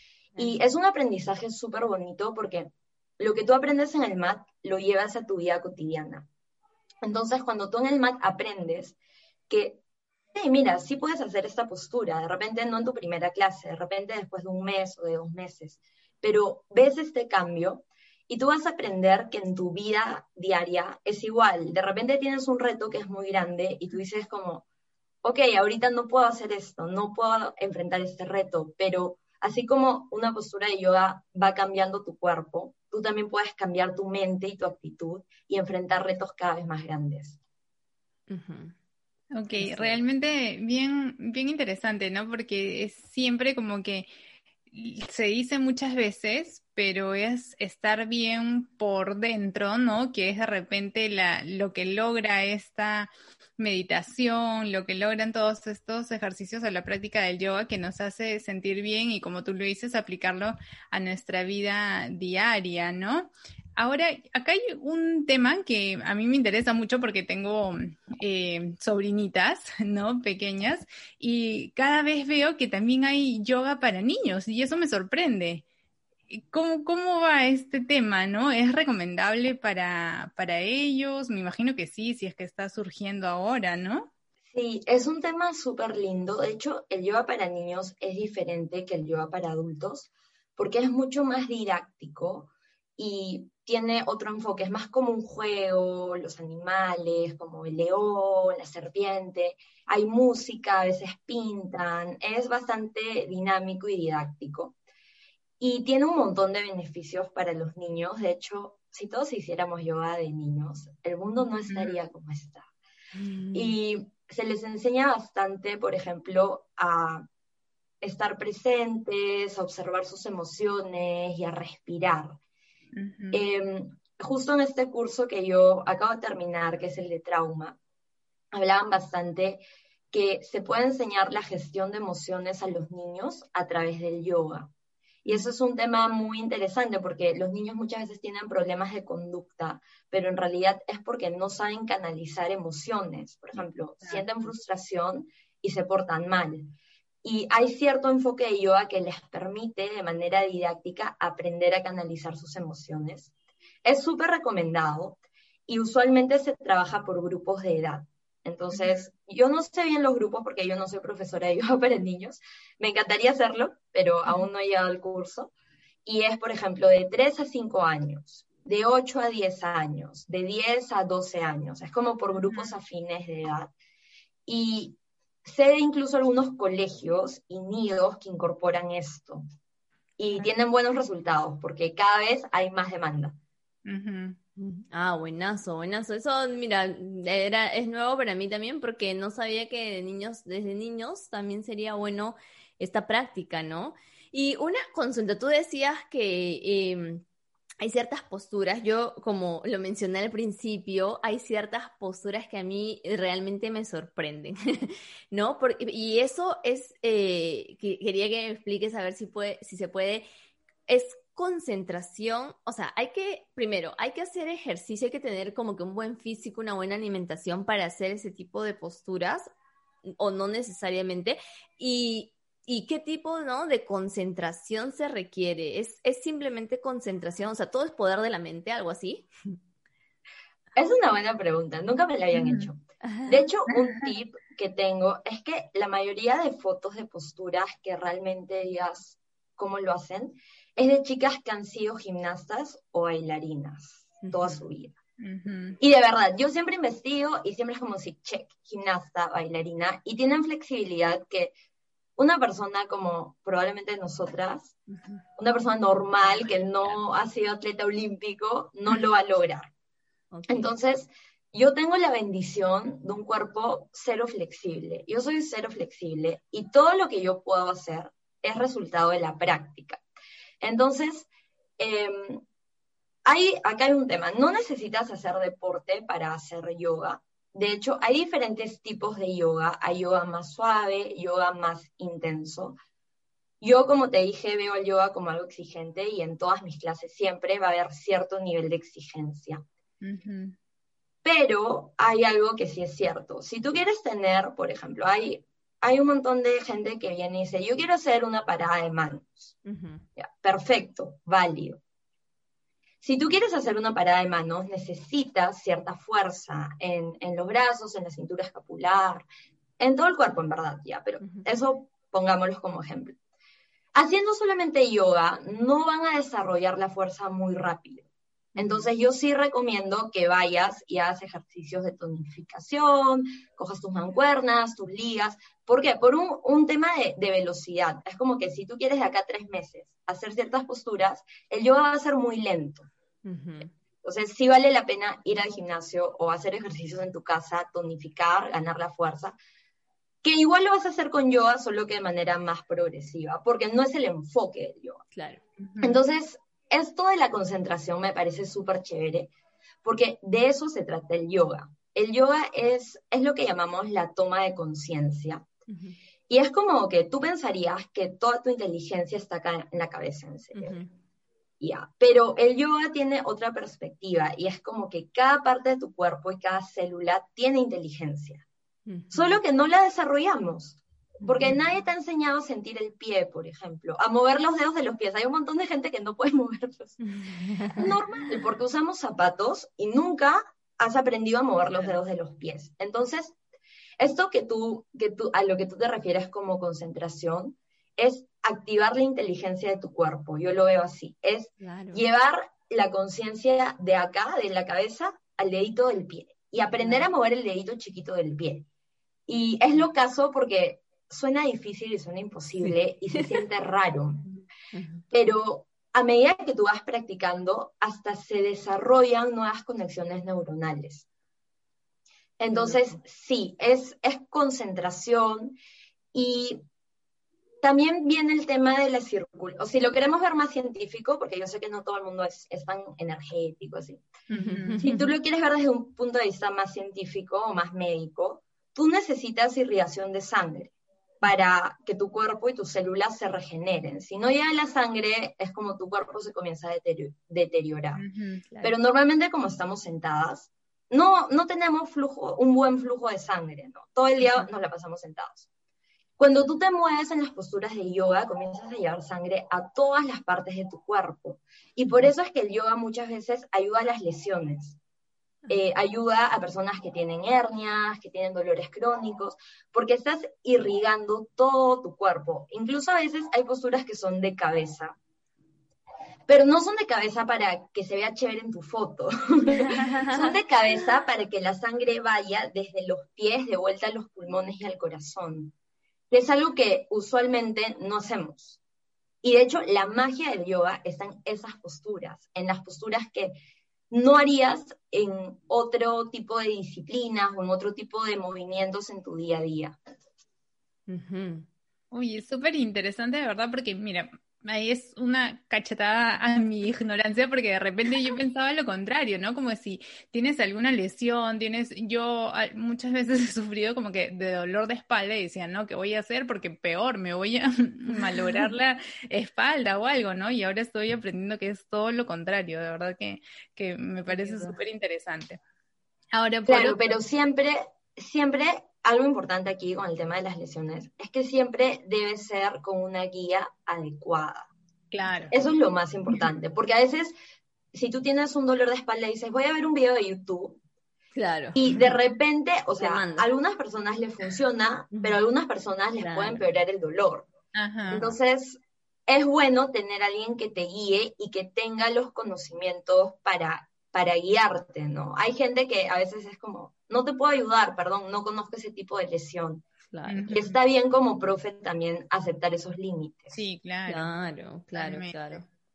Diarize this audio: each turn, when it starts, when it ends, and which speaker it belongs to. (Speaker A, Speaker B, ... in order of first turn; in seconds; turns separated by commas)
Speaker A: 0.4-6.3, Speaker A: 7.0-9.0, Speaker A: 9.5-9.8, Speaker A: 10.3-24.6, Speaker A: 25.2-37.4, Speaker B: 38.3-38.8, Speaker C: 39.3-44.1, Speaker B: 39.6-40.0, Speaker C: 44.7-75.7, Speaker C: 76.3-84.1, Speaker A: 84.5-104.8, Speaker A: 105.6-112.7, Speaker B: 113.2-113.8, Speaker A: 113.5-117.3, Speaker A: 118.0-122.4, Speaker C: 123.0-123.4, Speaker A: 123.3-127.8, Speaker A: 128.5-129.6, Speaker A: 130.1-134.7, Speaker A: 135.3-146.7, Speaker A: 147.2-153.3, Speaker A: 153.8-165.5, Speaker C: 158.7-159.0, Speaker A: 166.1-173.7, Speaker A: 174.5-179.4, Speaker A: 180.2-183.3, Speaker C: 183.9-184.4, Speaker B: 184.6-197.2, Speaker B: 197.8-210.2, Speaker B: 210.9-219.4, Speaker B: 220.1-229.6, Speaker A: 230.8-245.0, Speaker C: 232.3-232.7, Speaker B: 233.0-233.5, Speaker B: 244.2-244.6, Speaker C: 245.2-245.8, Speaker A: 245.8-251.5, Speaker A: 252.2-254.7, Speaker B: 254.9-255.2, Speaker A: 255.4-259.7, Speaker B: 260.3-260.7, Speaker A: 260.5-270.0, Speaker A: 270.6-272.4, Speaker A: 273.3-282.8, Speaker A: 283.6-289.6, Speaker C: 290.0-290.6, Speaker A: 291.2-299.5, Speaker B: 299.6-300.1, Speaker A: 300.2-301.8, Speaker A: 303.0-309.3, Speaker A: 309.8-313.2, Speaker A: 313.9-332.9, Speaker B: 318.6-318.9, Speaker B: 333.2-333.7, Speaker A: 334.0-339.4, Speaker A: 340.2-345.0, Speaker B: 345.1-345.4, Speaker C: 345.6-346.0, Speaker A: 345.8-349.3, Speaker A: 349.8-355.4, Speaker B: 355.7-356.0, Speaker A: 356.3-360.8, Speaker B: 360.5-360.9, Speaker A: 361.6-368.4, Speaker B: 368.9-369.4, Speaker A: 369.1-377.0, Speaker B: 371.2-371.6, Speaker B: 377.0-377.9, Speaker A: 377.8-383.4, Speaker A: 384.0-398.7, Speaker B: 391.6-392.0, Speaker B: 396.8-397.1, Speaker A: 399.3-404.2, Speaker B: 402.6-403.4, Speaker B: 404.7-405.1, Speaker A: 405.1-411.1, Speaker A: 412.4-415.6, Speaker B: 412.5-413.0, Speaker A: 416.1-416.6, Speaker A: 417.6-424.0, Speaker C: 424.3-424.9, Speaker B: 424.3-425.1, Speaker A: 424.8-438.0, Speaker C: 437.9-438.4, Speaker A: 438.6-445.5, Speaker B: 444.2-444.5, Speaker A: 446.2-454.8, Speaker A: 455.5-465.0, Speaker A: 466.3-475.5, Speaker B: 469.6-470.4, Speaker A: 476.1-478.6, Speaker A: 479.2-483.4, Speaker A: 483.9-489.8, Speaker B: 490.9-491.5, Speaker C: 491.9-515.4, Speaker B: 507.9-508.5, Speaker B: 514.1-514.6, Speaker C: 516.1-516.8, Speaker A: 516.5-524.5, Speaker C: 524.9-525.3, Speaker A: 525.3-527.1, Speaker A: 527.7-530.6, Speaker B: 531.1-531.6, Speaker A: 531.5-537.3, Speaker B: 532.8-533.3, Speaker B: 534.9-535.2, Speaker B: 536.0-536.4, Speaker C: 537.5-538.1, Speaker A: 537.9-549.6, Speaker B: 549.9-550.3, Speaker C: 550.1-550.6, Speaker A: 550.3-553.4, Speaker C: 553.3-554.1, Speaker B: 553.9-555.5, Speaker C: 554.8-555.4